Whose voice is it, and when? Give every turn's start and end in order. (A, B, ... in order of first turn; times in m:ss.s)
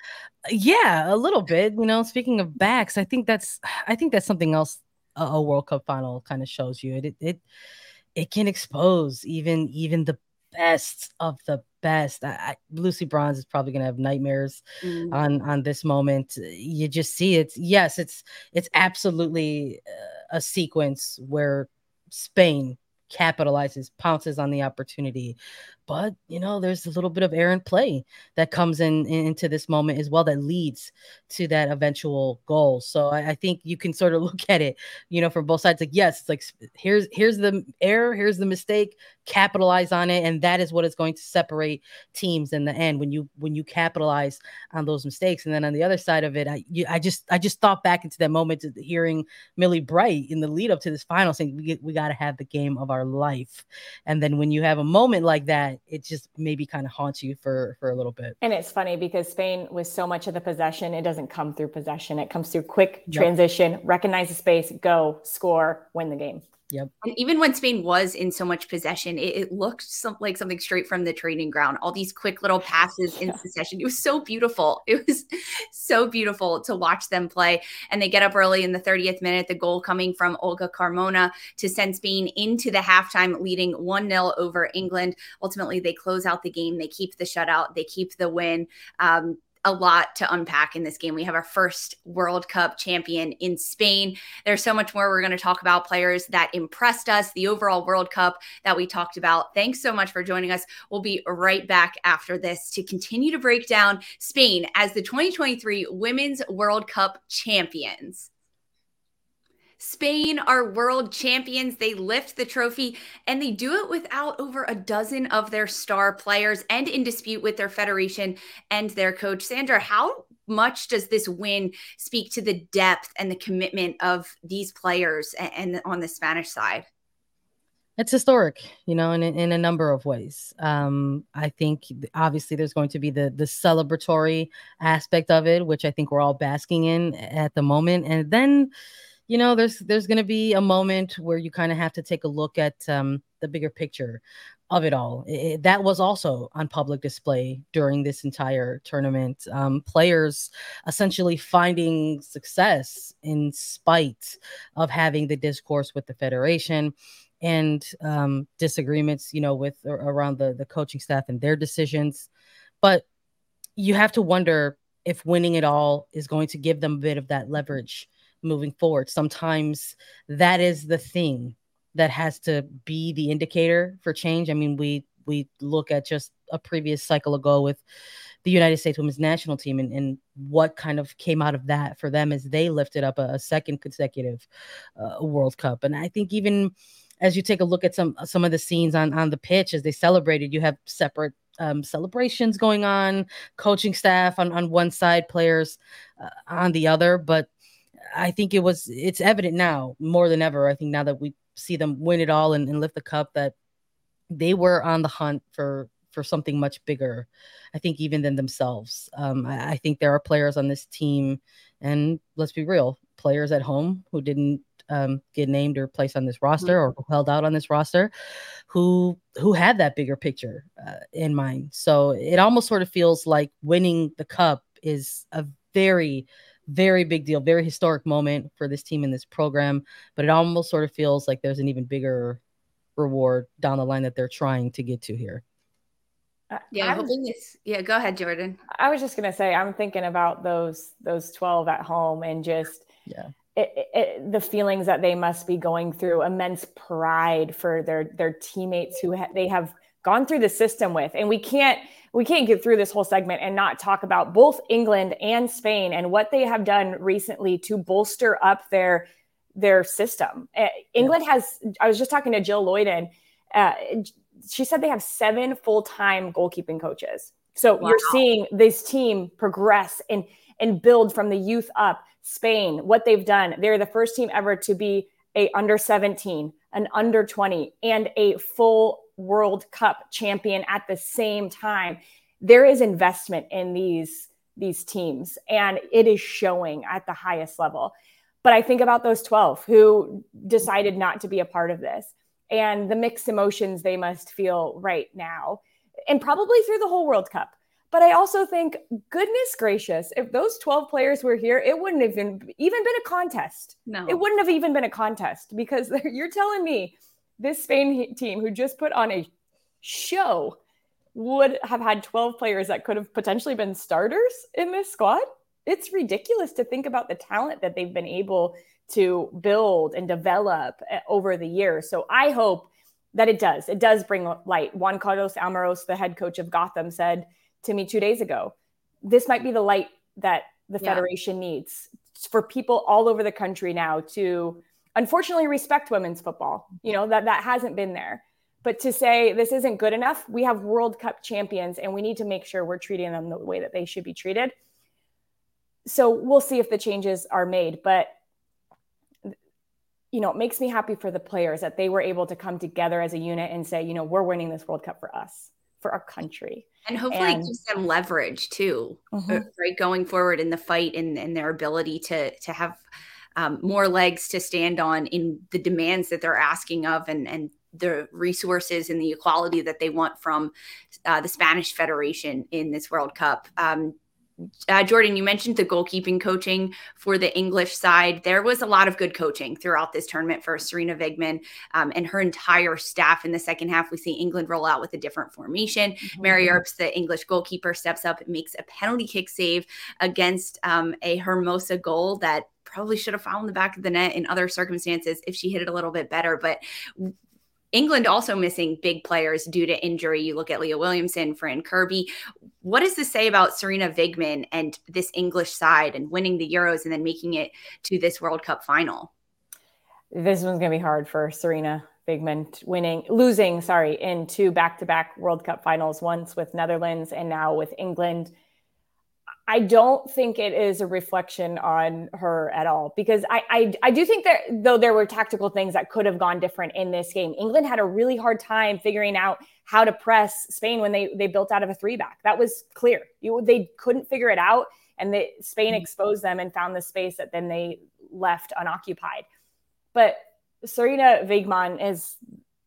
0:00.5-0:07.4 A
0:08.2-0:58.4 A
0:14.8-0:15.2 B
0:58.4-1:06.4 C
1:07.0-1:48.3 B
1:49.8-2:06.9 B
2:08.0-2:18.7 A
2:19.3-2:42.3 A
2:43.8-2:57.8 A
2:58.4-3:04.5 A
3:05.0-3:17.5 A
3:18.1-3:23.5 A
3:24.3-3:38.1 A
3:38.7-3:52.4 A
3:53.0-3:55.4 A
3:56.5-3:57.1 C
3:56.7-3:58.6 B
3:58.7-4:02.9 C
4:03.6-4:47.9 C
4:27.8-4:28.2 B
4:48.4-5:09.3 C
5:03.9-5:04.2 B
5:09.8-5:10.6 C
5:11.2-5:44.5 C
5:45.8-5:48.1 C
5:50.1-5:57.5 C
5:56.9-6:02.8 B
5:59.1-5:59.4 C
6:03.4-6:10.5 B
6:11.1-6:14.0 B
6:14.7-6:37.1 B
6:26.1-6:26.6 C
6:37.7-6:42.1 B
6:42.6-6:49.1 B
6:50.1-6:58.3 C
6:59.5-7:19.2 C
7:19.9-7:22.2 C